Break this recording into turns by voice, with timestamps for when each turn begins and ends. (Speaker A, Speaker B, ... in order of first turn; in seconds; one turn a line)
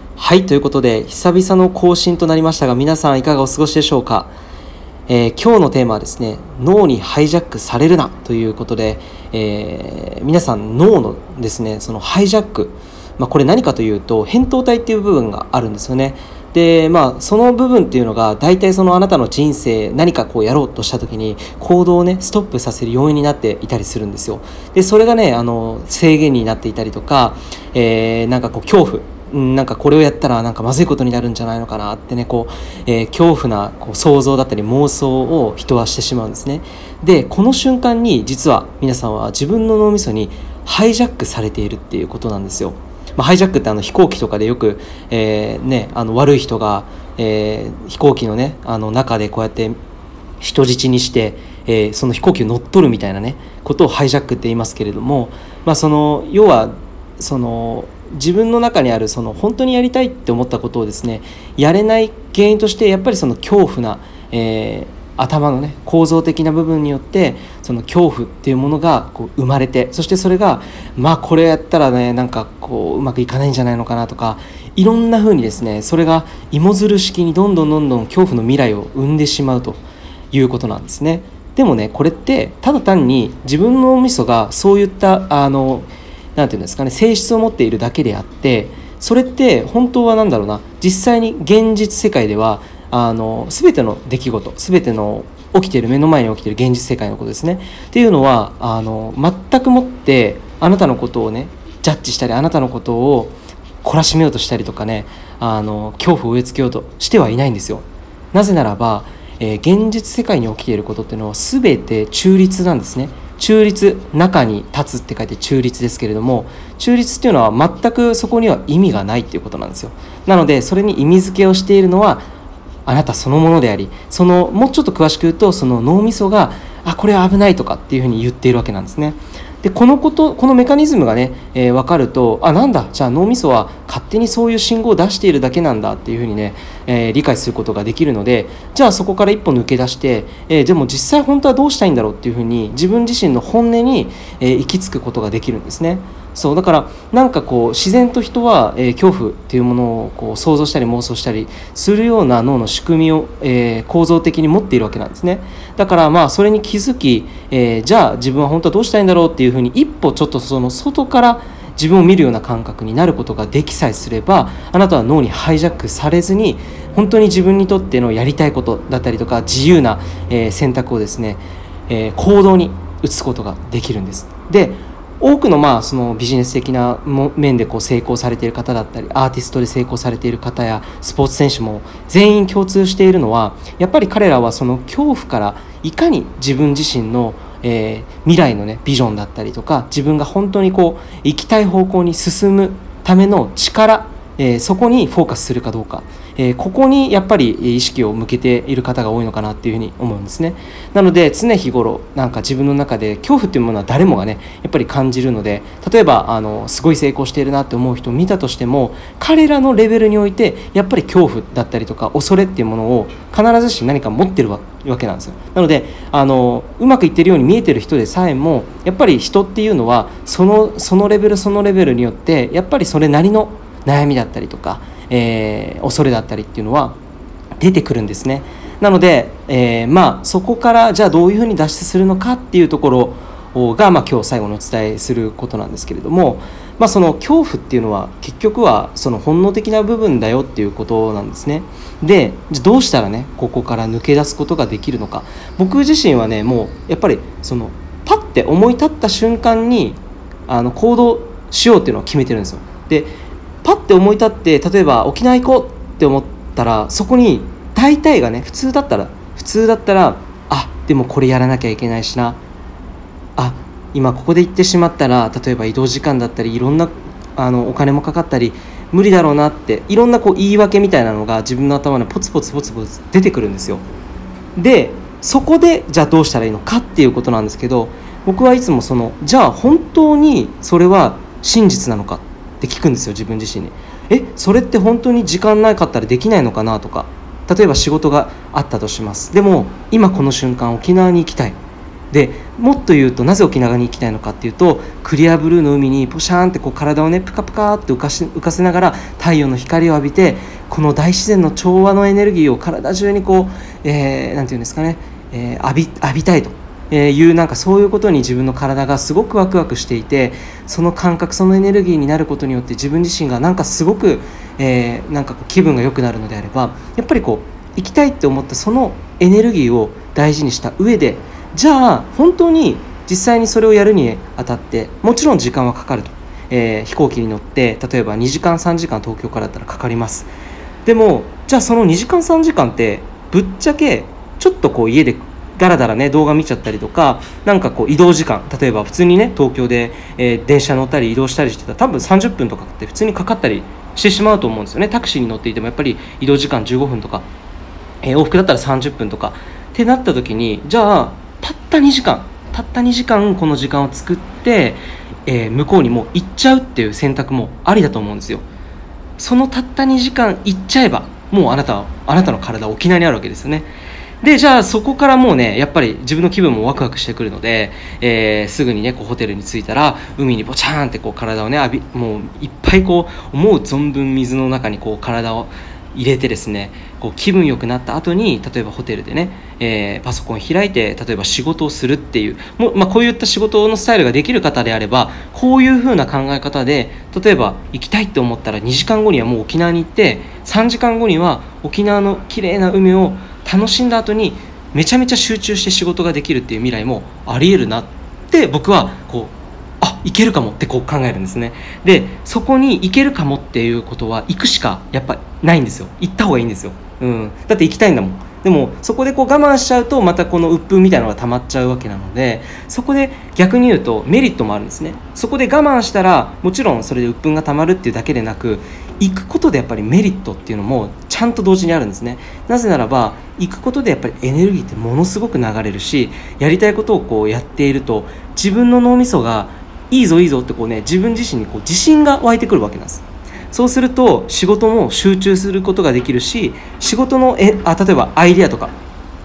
Speaker A: 0.2-4.3
Speaker A: 5.1-49.8
Speaker A: 50.4-122.3
Speaker A: 122.9-227.0
Speaker A: 227.6-262.4
Speaker A: 263.4-273.9
Speaker A: 274.6-291.6
Speaker A: 292.1-330.3
Speaker A: 330.9-347.3
Speaker A: 348.0-358.5
Speaker A: 359.2-363.7
Speaker A: 364.2-438.8